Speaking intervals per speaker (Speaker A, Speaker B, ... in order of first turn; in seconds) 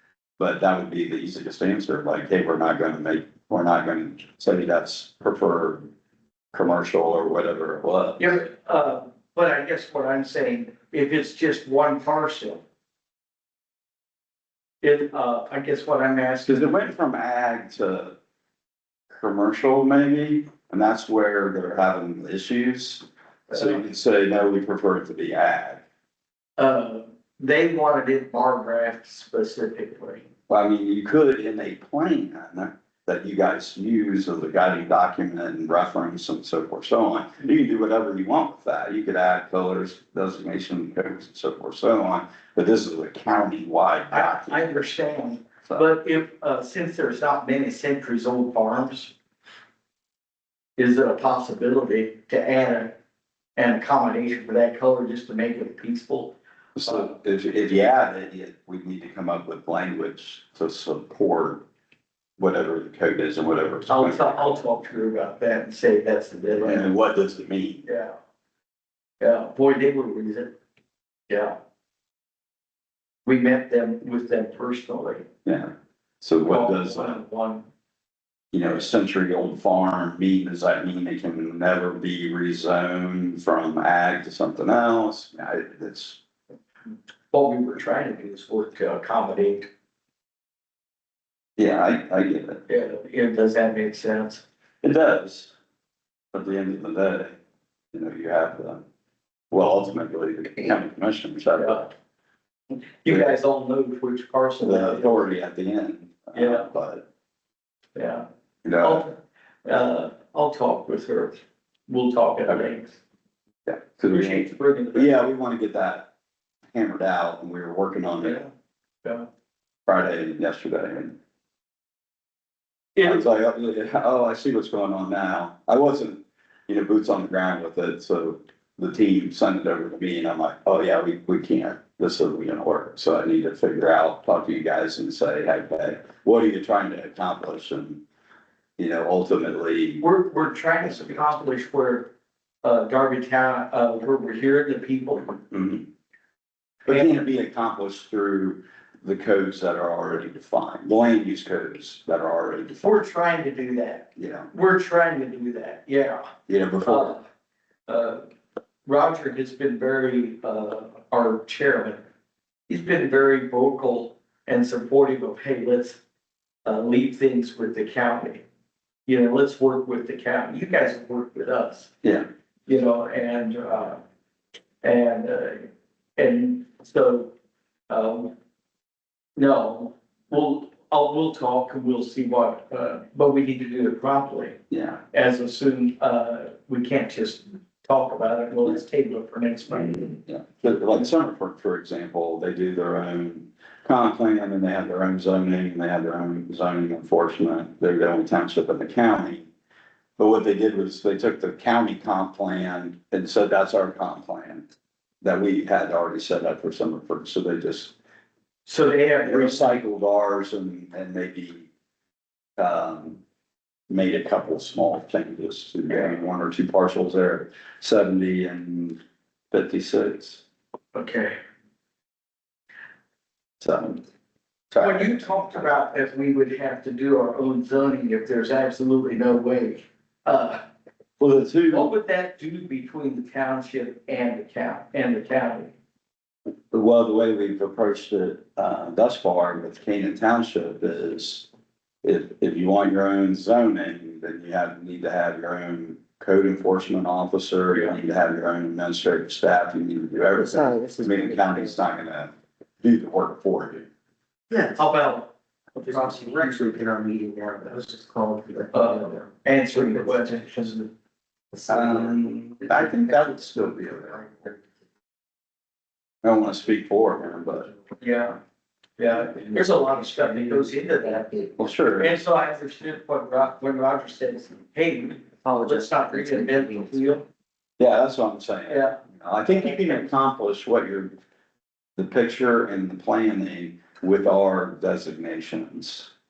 Speaker A: 0.4-5.9, 6.5-8.4, 16.4-18.1, 19.1-25.8, 30.5-44.8, 56.8-61.6, 62.4-64.7, 66.6-67.8, 75.4-77.2, 78.5-86.2, 91.6-92.6, 94.8-95.5, 96.3-97.4, 97.9-98.8, 99.5-101.9, 104.6-107.1, 108.6-109.0, 113.7-116.1, 116.7-118.4, 119.8-121.1, 123.0-138.0, 138.8-140.1, 140.8-141.3, 145.5-145.8, 146.8-152.9, 154.2-154.5, 156.5-157.2, 184.7-185.0, 190.2-199.5, 200.2-204.6, 205.2-207.9, 209.2-211.7, 212.6-213.2, 213.9-219.0, 219.5-220.4, 223.6-224.0, 224.7-225.7, 231.2-231.9, 236.7-241.5, 242.0-253.9, 261.7-264.4, 266.2-267.7, 271.6-272.2, 277.8-281.1, 282.0-286.1
Speaker B: 8.2-12.6, 14.8-16.9, 23.5-23.8, 26.6-30.3, 44.1-49.1, 50.8-53.0, 53.5-57.1, 63.9-66.9, 67.8-68.2, 69.2-70.5, 71.3-71.6, 73.2-75.2, 76.4-77.7, 87.3-89.7, 92.7-94.4, 101.6-101.9, 103.0-105.2, 106.3-106.7, 108.0-108.2, 108.8-113.0, 114.1-115.1, 118.2-118.5, 123.0-123.2, 140.0-142.1, 142.6-145.4, 146.9-147.2, 152.8-156.2, 156.8-157.2, 157.9-158.2, 158.8-162.0, 162.7-166.0, 166.6-168.4, 169.1-171.9, 172.7-174.0, 174.8-175.7, 176.2-177.3, 177.9-178.3, 179.3-184.6, 185.1-190.2, 208.7-209.7, 215.9-216.1, 220.9-221.4, 224.8-230.6, 231.7-235.7, 254.8-256.8, 258.7-260.7, 268.0-268.4, 269.0-271.3, 272.0-277.2, 278.7-280.1
Speaker C: 250.3-251.8, 254.5-254.8, 255.8-259.2, 259.9-260.5, 261.5-264.0, 269.4-271.6, 275.4-277.1